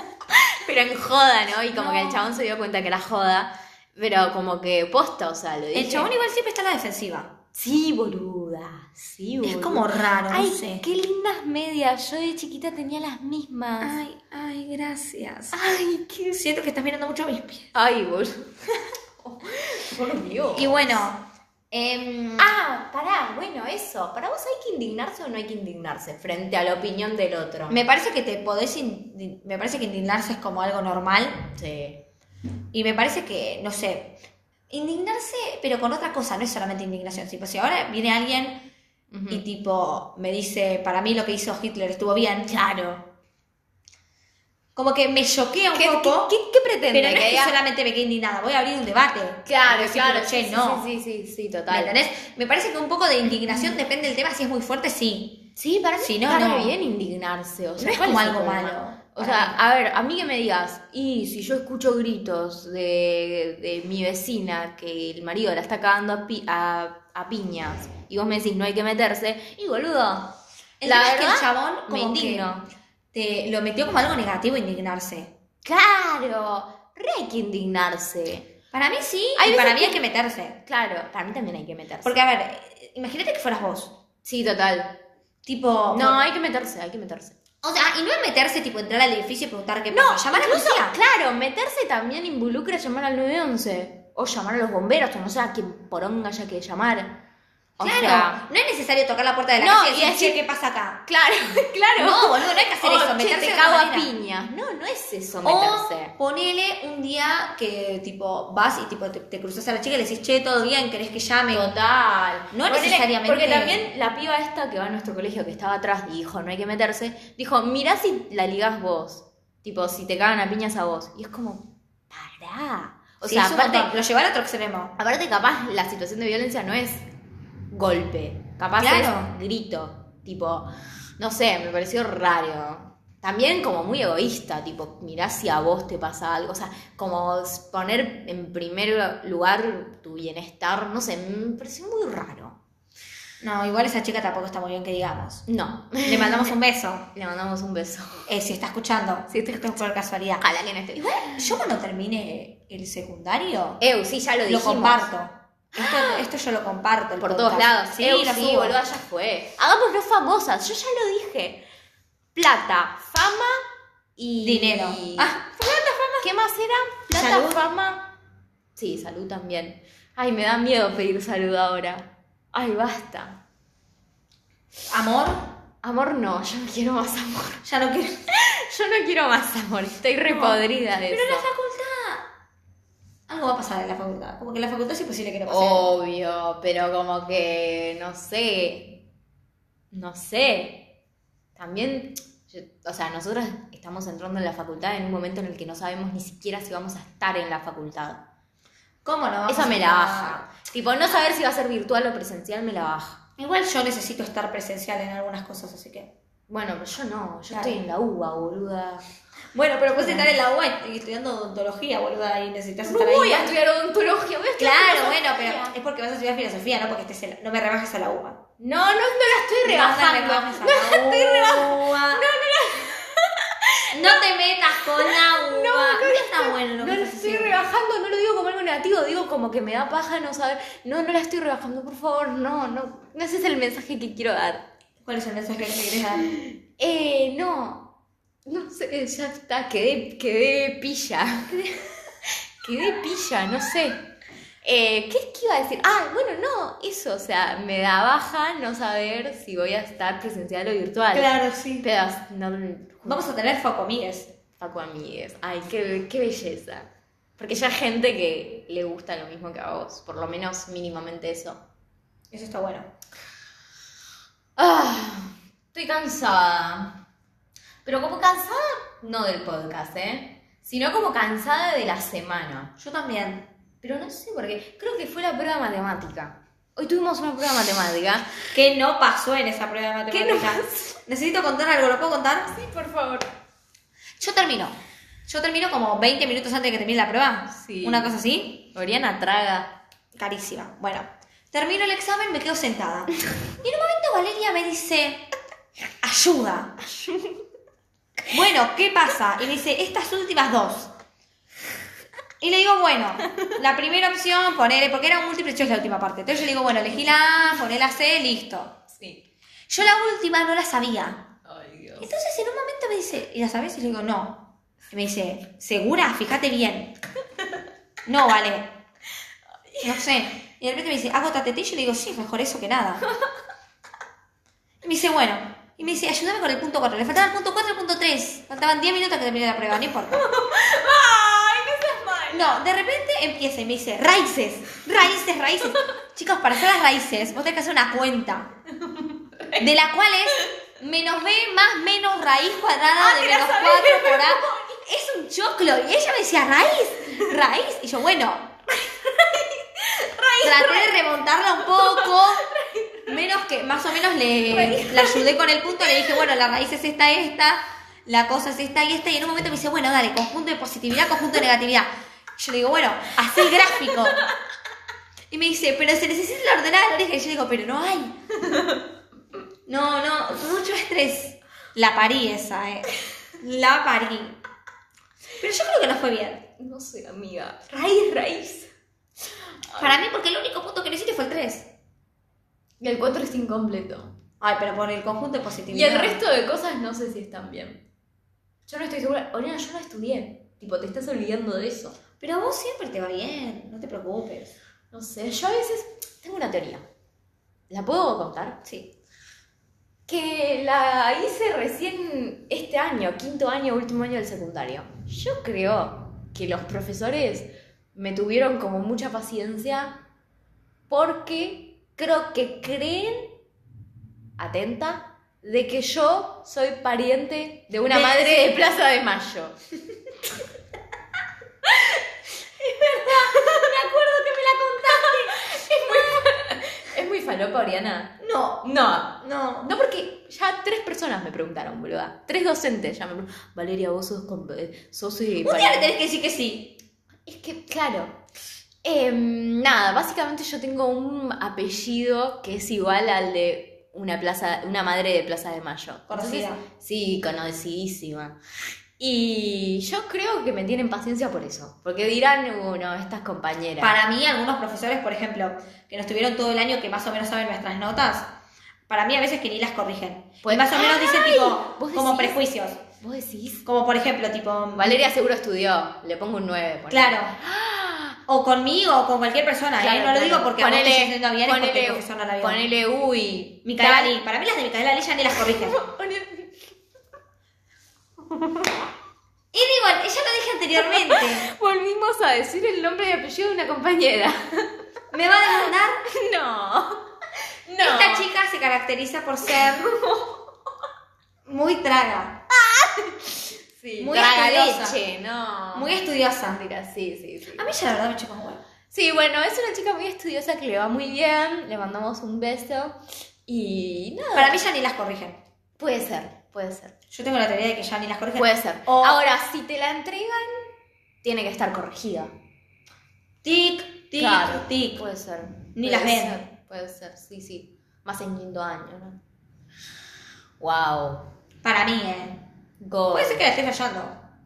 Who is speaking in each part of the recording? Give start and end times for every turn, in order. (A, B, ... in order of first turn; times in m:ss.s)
0:00.3-0:06.1 A
0:01.7-0:02.3 B
0:05.7-0:07.3 B
0:07.6-0:14.0 A
0:09.4-0:10.8 B
0:13.8-0:15.6 B
0:15.5-0:16.4 A
0:16.3-0:17.7 B
0:17.7-0:21.1 A
0:20.5-0:22.5 B
0:22.4-0:27.8 A
0:27.7-0:31.5 B
0:31.6-0:32.0 A
0:32.7-0:34.2 B
0:34.7-0:38.7 B
0:39.1-0:39.4 A
0:39.3-0:42.5 B
0:42.5-0:43.1 A
0:44.8-0:46.3 B
0:45.7-0:47.6 A
0:46.9-0:50.8 B
0:49.5-0:52.0 A
0:51.7-0:55.4 B
0:55.6-1:12.7 A
0:56.0-0:56.8 B
0:57.8-0:59.6 B
1:10.8-1:12.5 B
1:13.1-1:15.3 B
1:15.6-1:18.5 A
1:18.7-1:20.6 B
1:19.4-1:20.0 A
1:20.6-1:22.2 A
1:22.0-1:24.0 B
1:24.2-1:25.0 A
1:25.5-1:26.2 B
1:25.9-1:27.4 A
1:27.6-1:31.0 B
1:29.9-1:37.2 A
1:37.8-1:38.4 A
1:37.8-1:41.0 B
1:39.6-1:40.4 A
1:41.1-1:46.1 A
1:42.0-1:44.1 B
1:45.4-1:51.7 B
1:51.5-2:03.9 A
1:52.5-1:53.8 B
2:03.2-2:04.9 B
2:05.0-2:07.1 A
2:07.7-2:10.7 A
2:08.8-2:09.3 B
2:11.2-2:22.6 A
2:23.4-2:25.5 B
2:25.5-2:26.6 A
2:26.0-2:27.1 B
2:27.1-2:28.3 A
2:28.3-2:30.4 B
2:29.3-2:29.8 A
2:30.4-2:31.6 A
2:31.0-2:33.8 B
2:33.8-2:35.1 A
2:34.5-2:38.8 B
2:35.8-2:36.3 A
2:37.2-2:41.6 A
2:42.4-2:43.6 A
2:44.2-2:45.4 A
2:44.4-2:46.3 B
2:46.2-2:48.1 A
2:47.1-2:47.6 B
2:48.8-2:53.4 A
2:54.9-2:55.5 B
2:55.8-2:57.7 A
2:57.6-2:58.2 B
2:58.3-3:01.5 A
3:00.3-3:02.3 B
3:03.3-3:05.9 B
3:05.5-3:09.0 A
3:09.9-3:10.9 A
3:11.6-3:18.2 A
3:19.0-3:20.4 B
3:19.5-3:23.2 A
3:23.4-3:26.1 B
3:26.5-3:29.0 A
3:27.5-3:27.8 B
3:29.5-3:33.5 B
3:30.0-3:30.4 A
3:32.8-3:35.8 A
3:34.6-3:38.4 B
3:38.6-3:44.2 A
3:39.6-3:42.3 B
3:43.9-3:47.6 B
3:44.8-3:54.7 A
3:55.0-3:56.4 B
3:56.8-3:57.9 A
3:58.5-4:04.1 A
4:04.6-4:13.3 A
4:11.1-4:11.9 B
4:13.0-4:14.3 B
4:14.6-4:21.6 A
4:22.3-4:22.9 B
4:24.6-4:27.0 A
4:27.8-4:32.7 A
4:32.8-4:33.5 B
4:33.8-4:38.4 A
4:38.5-4:42.5 B
4:40.1-4:41.0 A
4:42.5-4:43.3 A
4:44.2-4:44.8 B
4:45.3-4:48.7 B
4:47.5-4:48.2 A
4:48.7-4:49.8 A
4:50.2-4:55.2 B
4:56.0-4:56.8 B
4:58.3-5:00.9 B
5:02.4-5:08.8 B
5:08.9-5:09.2 A
5:09.7-5:11.3 B
5:11.4-5:12.1 A
5:12.0-5:17.0 B
5:18.1-5:18.7 B
5:19.8-5:23.0 B
5:24.8-5:30.2 B
5:30.1-5:32.6 A
5:32.3-5:38.5 B
5:39.0-5:39.6 A
5:39.6-5:48.6 B
5:43.0-5:44.8 A
5:48.8-5:51.0 A
5:50.4-5:52.5 B
5:51.6-5:53.2 A
5:53.1-6:04.2 B
5:54.4-5:56.2 A
6:03.5-6:04.2 A
6:05.3-6:08.2 B
6:08.5-6:08.8 A
6:09.7-6:12.9 B
6:13.4-6:14.4 B
6:15.4-6:16.4 B
6:16.6-6:18.7 A
6:19.7-6:20.0 A
6:19.8-6:21.7 B
6:22.8-6:24.2 A
6:24.4-6:26.2 B
6:25.7-6:27.8 A
6:28.7-6:32.0 A
6:32.2-6:34.5 B
6:34.9-6:36.9 A
6:37.7-6:38.6 A
6:38.7-6:38.9 B
6:40.1-6:50.0 A
6:50.9-6:53.4 A
6:54.4-6:59.6 A
6:57.9-6:58.5 B
7:01.6-7:02.0 A
7:02.6-7:15.9 A
7:02.8-7:05.6 B
7:08.2-7:08.7 B
7:09.2-7:09.7 B
7:15.4-7:16.8 B
7:17.3-7:18.2 A
7:18.8-7:28.4 A
7:26.1-7:26.6 B
7:29.0-7:34.0 A
7:33.8-7:38.3 B
7:38.9-7:42.8 B
7:40.4-7:42.4 A
7:43.0-7:43.7 A
7:43.6-7:45.0 B
7:44.8-7:48.2 A
7:46.9-7:47.4 B
7:48.3-7:52.6 B
7:49.8-7:54.2 A
7:53.6-7:55.8 B
7:55.4-7:56.7 A
7:59.5-8:01.5 B
8:00.8-8:04.7 A
8:05.1-8:06.0 B
8:05.3-8:08.3 A
8:07.8-8:09.9 B
8:09.5-8:10.4 A
8:11.5-8:12.4 B
8:12.5-8:17.7 A
8:14.0-8:15.0 B
8:15.7-8:16.6 B
8:17.6-8:18.6 B
8:18.9-8:24.6 A
8:24.4-8:25.4 B
8:25.8-8:26.9 A
8:27.1-8:29.2 B
8:28.4-8:30.7 A
8:31.2-8:32.3 A
8:33.4-8:35.0 B
8:34.2-8:39.2 A
8:35.8-8:36.4 B
8:40.6-8:41.3 A
8:41.6-8:42.4 B
8:42.8-8:43.6 A
8:43.1-8:44.2 B